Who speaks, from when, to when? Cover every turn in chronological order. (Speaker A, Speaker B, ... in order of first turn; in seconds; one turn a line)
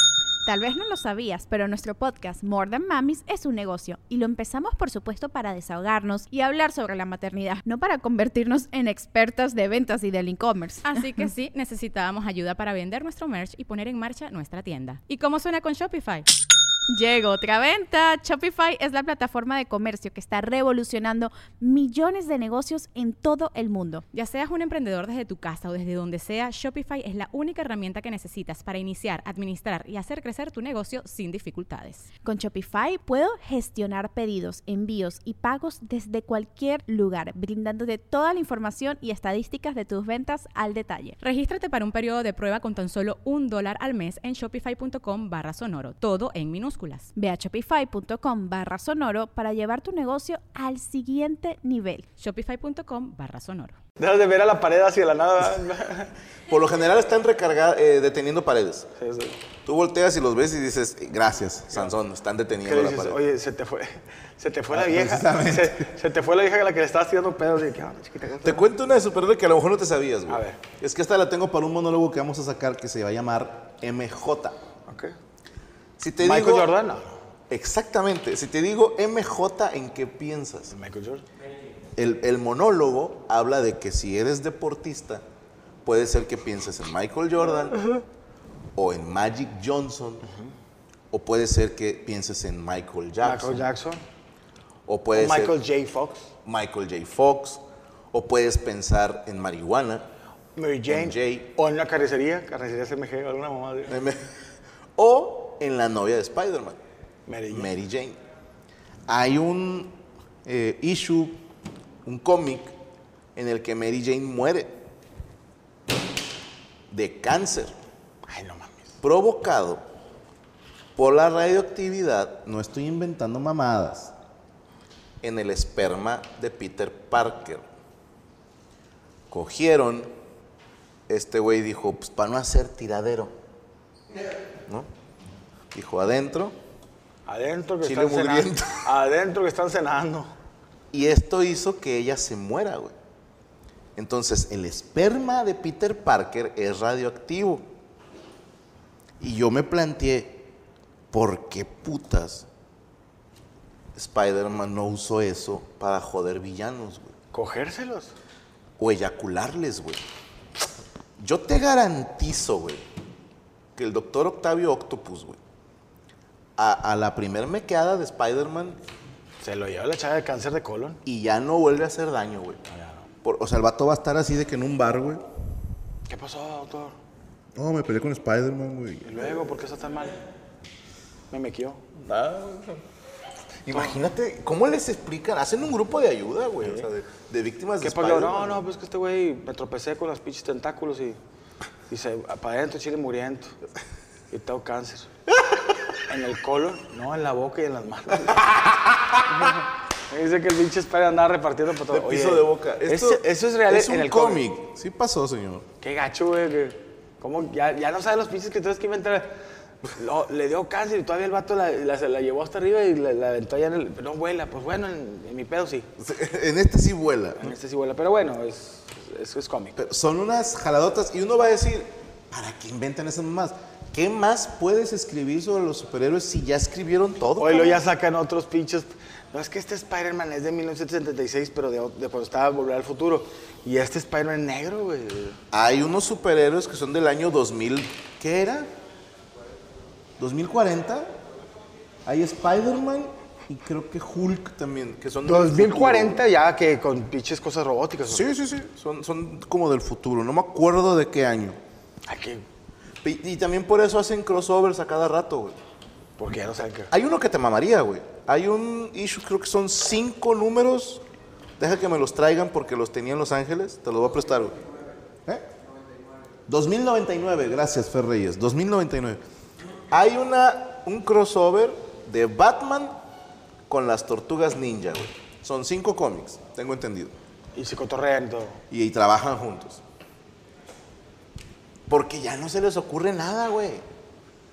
Speaker A: 0.5-11.2
Speaker B: 10.8-16.3
Speaker A: 16.9-24.0
Speaker B: 24.1-32.1
Speaker A: 32.2-41.2
Speaker B: 41.2-47.1
Speaker A: 47.2-52.0
Speaker B: 52.2-53.8
Speaker C: 54.0-56.1
Speaker D: 56.5-58.9
Speaker C: 59.0-59.4
Speaker D: 59.6-63.2
Speaker C: 62.6-68.7
Speaker D: 64.7-65.9
Speaker D: 68.4-74.6
Speaker C: 70.3-70.6
Speaker C: 74.9-75.2
Speaker D: 76.0-76.7
Speaker C: 76.2-77.1
Speaker D: 77.5-80.7
Speaker C: 80.7-81.2
Speaker D: 82.0-85.2
Speaker D: 85.8-87.8
Speaker D: 88.8-90.3
Speaker D: 91.1-93.6
Speaker C: 93.2-94.0
Speaker D: 94.8-95.5
Speaker C: 95.1-96.3
Speaker D: 96.4-100.1
Speaker C: 100.5-104.0
Speaker D: 100.9-101.5
Speaker D: 103.9-104.4
Speaker D: 105.0-106.8
Speaker C: 107.3-107.7
Speaker D: 107.5-108.2
Speaker D: 109.1-111.4
Speaker D: 112.0-112.7
Speaker D: 113.3-114.8
Speaker D: 116.9-117.7
Speaker C: 118.3-118.9
Speaker D: 119.0-119.8
Speaker D: 121.0-124.1
Speaker D: 125.2-127.6
Speaker D: 129.3-130.1
Speaker D: 131.1-133.3
Speaker D: 135.7-136.6
Speaker C: 137.2-140.3
Speaker D: 137.8-138.9
Speaker D: 140.9-142.9
Speaker D: 143.9-147.6
Speaker D: 149.2-150.5
Speaker D: 151.1-152.5
Speaker D: 153.9-157.1
Speaker C: 157.3-158.1
Speaker D: 158.8-160.0
Speaker D: 161.2-162.9
Speaker D: 163.8-165.4
Speaker D: 166.6-168.8
Speaker C: 169.4-171.0
Speaker D: 171.0-172.6
Speaker C: 172.7-173.0
Speaker D: 173.2-175.2
Speaker C: 176.1-177.0
Speaker D: 177.6-179.2
Speaker C: 179.0-180.2
Speaker C: 181.3-181.8
Speaker D: 182.0-182.8
Speaker D: 183.6-188.6
Speaker C: 183.7-183.9
Speaker C: 186.6-186.9
Speaker C: 187.8-191.2
Speaker C: 191.9-193.5
Speaker C: 194.3-195.1
Speaker C: 196.1-198.5
Speaker D: 198.5-199.0
Speaker C: 199.3-204.5
Speaker D: 201.9-205.7
Speaker C: 205.8-215.9
Speaker D: 216.0-217.5
Speaker C: 217.4-219.8
Speaker D: 219.8-227.8
Speaker C: 227.3-235.4
Speaker D: 235.5-238.7
Speaker D: 240.2-241.1
Speaker D: 242.1-246.2
Speaker C: 245.2-248.3
Speaker D: 248.1-251.6
Speaker C: 252.1-252.4
Speaker D: 253.0-255.6
Speaker C: 256.2-256.9
Speaker D: 256.9-261.0
Speaker D: 261.6-264.6
Speaker D: 266.5-269.2
Speaker D: 269.9-272.9
Speaker D: 273.7-277.1
Speaker C: 277.5-278.6
Speaker D: 278.7-279.8
Speaker D: 281.9-283.9